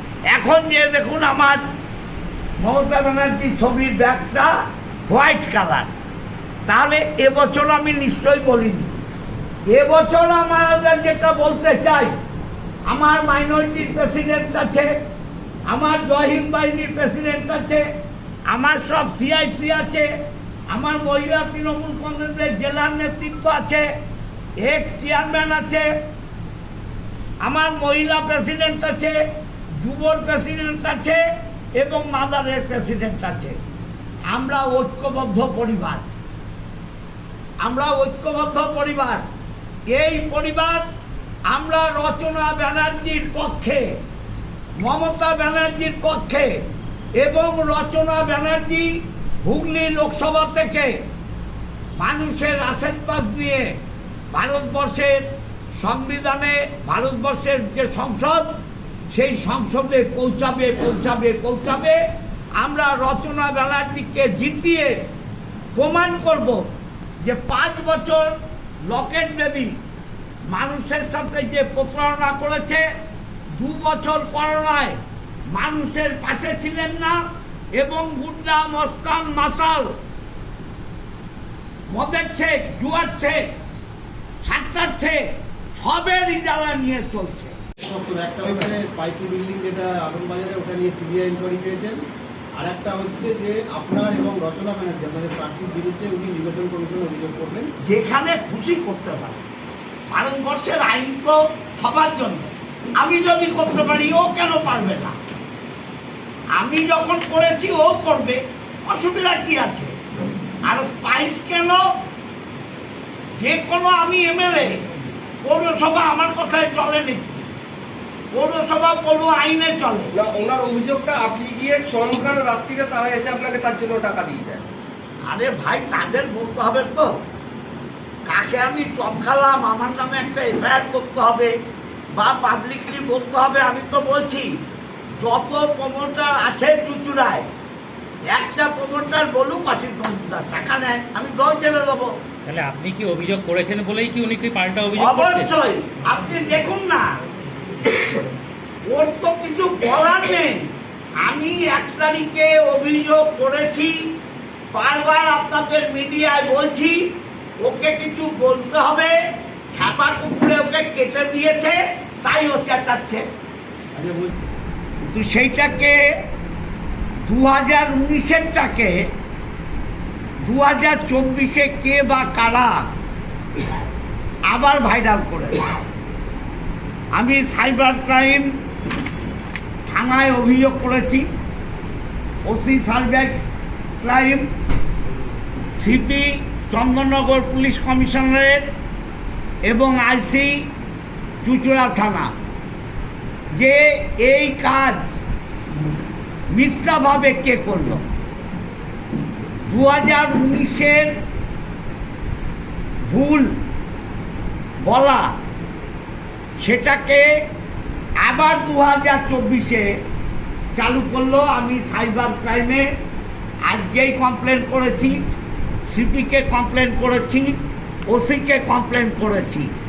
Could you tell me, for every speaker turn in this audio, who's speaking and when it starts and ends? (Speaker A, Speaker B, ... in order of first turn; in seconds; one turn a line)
Speaker A: 0.3-1.6
Speaker A: 2.6-4.5
Speaker A: 5.1-5.9
Speaker A: 6.7-9.0
Speaker A: 9.7-12.1
Speaker A: 12.9-14.9
Speaker A: 15.7-17.8
Speaker A: 18.5-20.1
Speaker A: 20.7-23.9
Speaker A: 24.6-25.9
Speaker A: 27.4-29.1
Speaker A: 29.8-31.2
Speaker A: 31.8-33.6
Speaker A: 34.3-36.1
Speaker A: 37.6-39.2
Speaker A: 39.9-40.8
Speaker A: 41.5-43.8
Speaker A: 44.8-46.5
Speaker A: 47.2-48.9
Speaker A: 49.4-50.9
Speaker A: 52.0-53.7
Speaker A: 54.3-55.2
Speaker A: 55.8-58.5
Speaker A: 59.1-62.0
Speaker A: 62.6-64.9
Speaker A: 65.8-66.7
Speaker A: 67.2-68.3
Speaker A: 68.9-69.7
Speaker A: 70.5-72.8
Speaker A: 73.5-75.0
Speaker A: 75.5-77.2
Speaker A: 77.8-79.8
Speaker A: 81.9-83.4
Speaker A: 84.4-85.2
Speaker A: 85.7-87.5
Speaker B: 87.9-92.0
Speaker B: 92.6-97.7
Speaker A: 97.8-99.4
Speaker A: 100.1-105.2
Speaker A: 106.6-109.9
Speaker A: 110.6-111.8
Speaker A: 113.4-114.8
Speaker A: 115.4-117.5
Speaker A: 118.3-120.1
Speaker C: 120.1-124.7
Speaker A: 125.2-127.1
Speaker A: 128.2-131.5
Speaker A: 132.1-134.5
Speaker A: 135.2-137.4
Speaker A: 138.3-142.1
Speaker D: 142.4-145.5
Speaker A: 144.9-147.1
Speaker A: 148.8-150.7
Speaker A: 151.2-153.9
Speaker A: 154.7-157.0
Speaker A: 157.6-159.1
Speaker A: 159.7-163.2
Speaker B: 163.9-164.3
Speaker A: 165.1-166.0
Speaker A: 167.3-168.9
Speaker A: 170.4-172.9
Speaker A: 174.5-175.8
Speaker A: 177.1-178.4
Speaker A: 179.9-181.2
Speaker A: 182.5-183.4
Speaker A: 184.0-184.5
Speaker A: 185.8-188.6
Speaker A: 189.7-190.5
Speaker A: 191.4-192.3
Speaker A: 193.5-195.1
Speaker A: 196.5-198.0
Speaker A: 199.7-201.1
Speaker A: 203.1-203.5
Speaker A: 204.8-205.3
Speaker A: 206.6-207.3
Speaker A: 208.2-209.9
Speaker A: 210.8-212.8
Speaker A: 213.7-215.2
Speaker A: 215.9-219.7